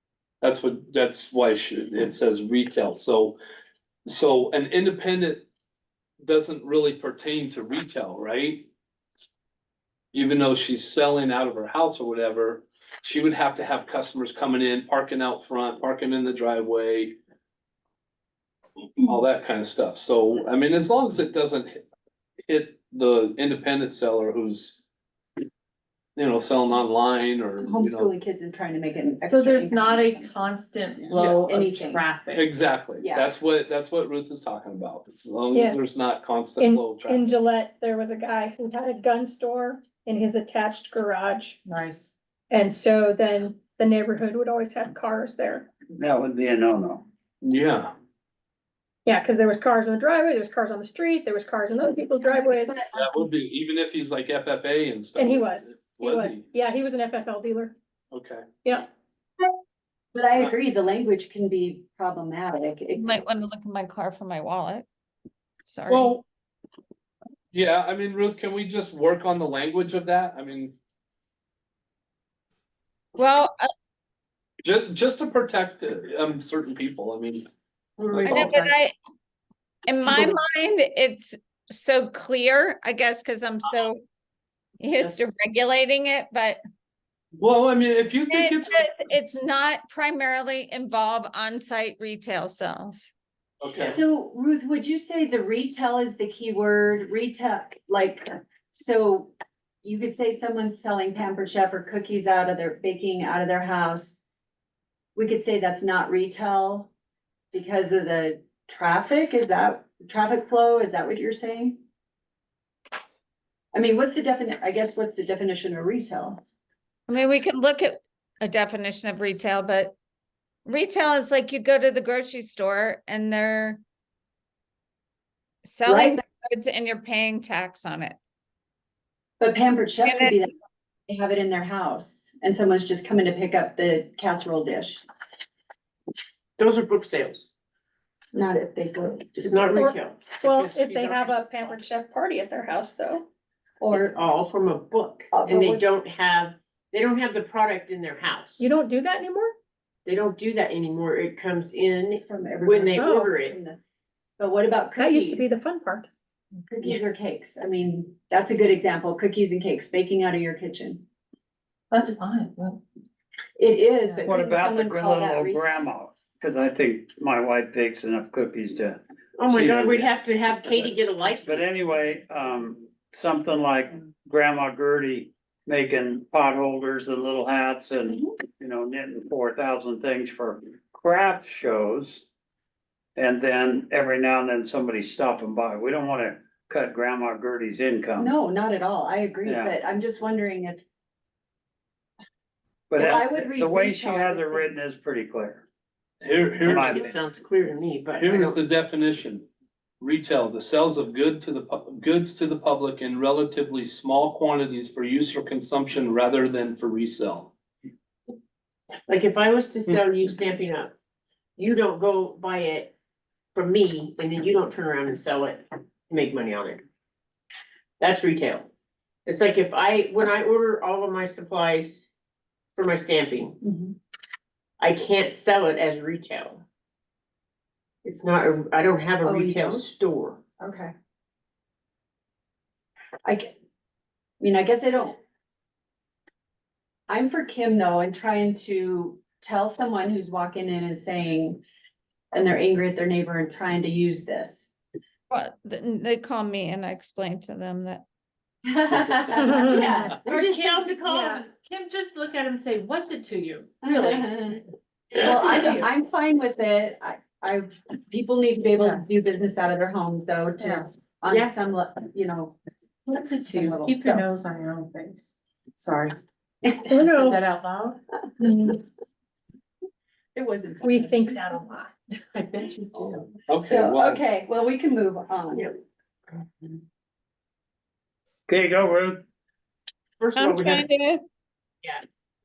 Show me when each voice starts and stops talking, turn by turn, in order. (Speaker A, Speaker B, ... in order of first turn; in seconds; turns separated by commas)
Speaker A: 0.4-3.4, Speaker A: 4.0-5.4, Speaker A: 6.2-8.7, Speaker A: 10.1-17.1, Speaker A: 19.0-21.8, Speaker A: 22.5-24.8, Speaker A: 26.1-28.1, Speaker B: 27.6-30.4, Speaker C: 29.2-32.5, Speaker B: 31.0-32.0, Speaker A: 32.3-37.3, Speaker B: 33.0-33.3, Speaker D: 35.5-35.8, Speaker D: 36.6-41.6, Speaker C: 41.6-42.1, Speaker D: 42.5-45.7, Speaker E: 45.9-47.0, Speaker A: 47.4-47.9, Speaker D: 49.0-52.9, Speaker A: 52.9-56.4, Speaker D: 55.1-57.7, Speaker A: 58.1-58.5, Speaker B: 60.1-63.2, Speaker F: 62.9-64.8, Speaker F: 65.6-66.2, Speaker A: 65.9-66.2, Speaker A: 67.5-70.7, Speaker F: 73.2-73.7, Speaker A: 74.6-77.5, Speaker G: 78.0-78.8, Speaker A: 78.1-78.5, Speaker F: 78.2-78.9, Speaker F: 79.8-84.0, Speaker F: 84.8-86.6, Speaker G: 85.0-85.3, Speaker A: 87.4-88.9, Speaker F: 88.3-93.1, Speaker A: 93.6-94.0, Speaker B: 93.9-99.3, Speaker B: 99.8-104.1, Speaker B: 105.1-106.9, Speaker B: 107.5-111.8, Speaker B: 113.7-116.4, Speaker F: 117.1-120.0, Speaker F: 120.7-123.8, Speaker F: 125.6-128.2, Speaker B: 125.8-126.2, Speaker B: 129.4-130.5, Speaker F: 130.0-130.5, Speaker B: 131.1-135.0, Speaker G: 136.6-137.5, Speaker B: 138.3-139.9, Speaker G: 139.4-141.6, Speaker D: 139.8-143.2, Speaker B: 143.8-144.2, Speaker G: 143.9-148.6, Speaker B: 145.3-145.9, Speaker D: 148.6-149.5, Speaker G: 150.1-153.6, Speaker B: 152.2-153.8, Speaker D: 153.0-153.3, Speaker B: 154.4-155.6, Speaker D: 155.0-156.1, Speaker B: 156.7-161.0, Speaker C: 161.9-162.8, Speaker B: 163.6-165.7, Speaker E: 164.2-169.0, Speaker G: 169.3-171.7, Speaker A: 169.5-170.1, Speaker E: 171.4-182.2, Speaker B: 178.1-178.3, Speaker E: 183.2-188.3, Speaker B: 188.2-190.8, Speaker E: 189.4-189.7, Speaker E: 192.9-195.6, Speaker B: 193.0-194.7, Speaker A: 196.2-197.0, Speaker G: 196.6-198.6, Speaker E: 196.6-197.1, Speaker A: 198.2-199.4, Speaker A: 200.0-207.5, Speaker G: 209.1-210.9, Speaker G: 211.6-212.9, Speaker G: 213.5-216.8, Speaker G: 218.0-218.7, Speaker G: 219.2-222.1, Speaker G: 222.8-223.6, Speaker B: 223.6-223.9, Speaker G: 224.8-226.6, Speaker G: 228.0-230.4, Speaker B: 229.2-229.9, Speaker B: 230.6-230.9, Speaker B: 233.2-233.5, Speaker B: 234.4-235.2, Speaker B: 237.1-241.6, Speaker B: 242.3-244.7, Speaker F: 245.3-248.0, Speaker B: 248.6-250.0, Speaker D: 249.4-250.2, Speaker G: 249.6-251.5, Speaker C: 250.3-254.4, Speaker D: 251.1-251.4, Speaker B: 253.8-254.6, Speaker C: 255.1-255.9, Speaker B: 255.1-262.6, Speaker C: 258.7-259.0, Speaker C: 260.6-260.9, Speaker G: 261.3-261.5, Speaker C: 263.1-266.2, Speaker B: 263.4-264.2, Speaker C: 266.7-268.0, Speaker D: 266.9-267.4, Speaker D: 268.4-268.8, Speaker B: 270.3-271.3, Speaker D: 270.8-271.9, Speaker C: 272.3-273.3, Speaker A: 273.0-274.2, Speaker B: 273.6-275.7, Speaker E: 278.5-279.2, Speaker G: 280.2-280.8, Speaker F: 280.4-281.2, Speaker E: 280.4-280.7